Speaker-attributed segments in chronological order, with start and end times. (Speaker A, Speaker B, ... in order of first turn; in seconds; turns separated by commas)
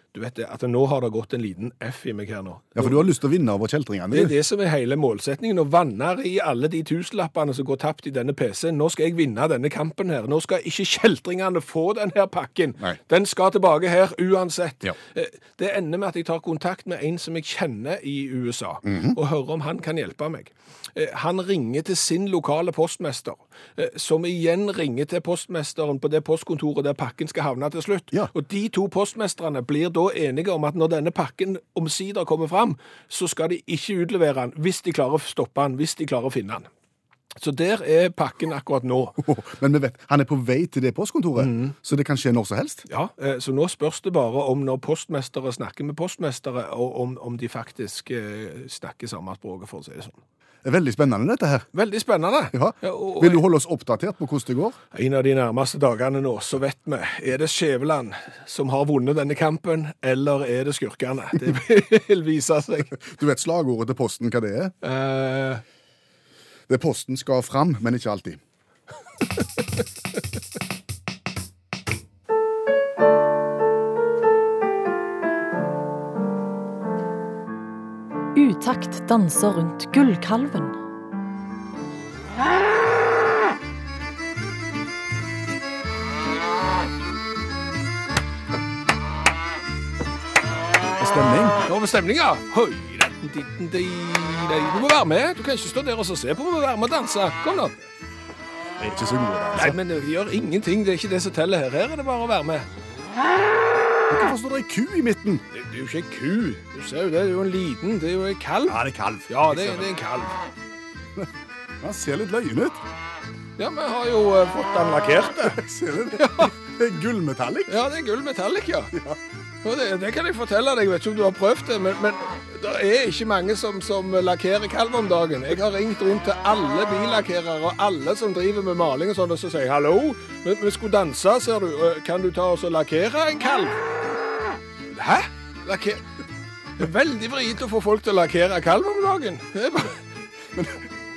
Speaker A: 0.1-3.0, Speaker B: 2.8-4.3, Speaker A: 4.1-36.7, Speaker B: 18.8-19.2, Speaker A: 37.4-39.2, Speaker B: 39.2-42.8, Speaker A: 41.4-41.7, Speaker A: 42.9-50.2, Speaker B: 50.6-51.7, Speaker A: 51.7-53.4, Speaker B: 52.5-54.8, Speaker A: 54.9-63.0, Speaker B: 63.0-64.7, Speaker A: 64.8-65.6, Speaker B: 66.7-68.4, Speaker C: 78.3-80.8, Speaker B: 91.0-91.6, Speaker A: 91.7-97.7, Speaker B: 98.8-99.8, Speaker A: 99.5-102.7, Speaker B: 104.1-105.4, Speaker A: 105.5-110.4, Speaker B: 108.7-109.9, Speaker B: 111.8-112.8, Speaker A: 113.6-115.6, Speaker B: 115.4-117.8, Speaker A: 116.1-116.5, Speaker A: 117.7-118.9, Speaker B: 118.9-119.2, Speaker A: 119.6-133.8, Speaker A: 134.9-136.0, Speaker A: 136.8-140.0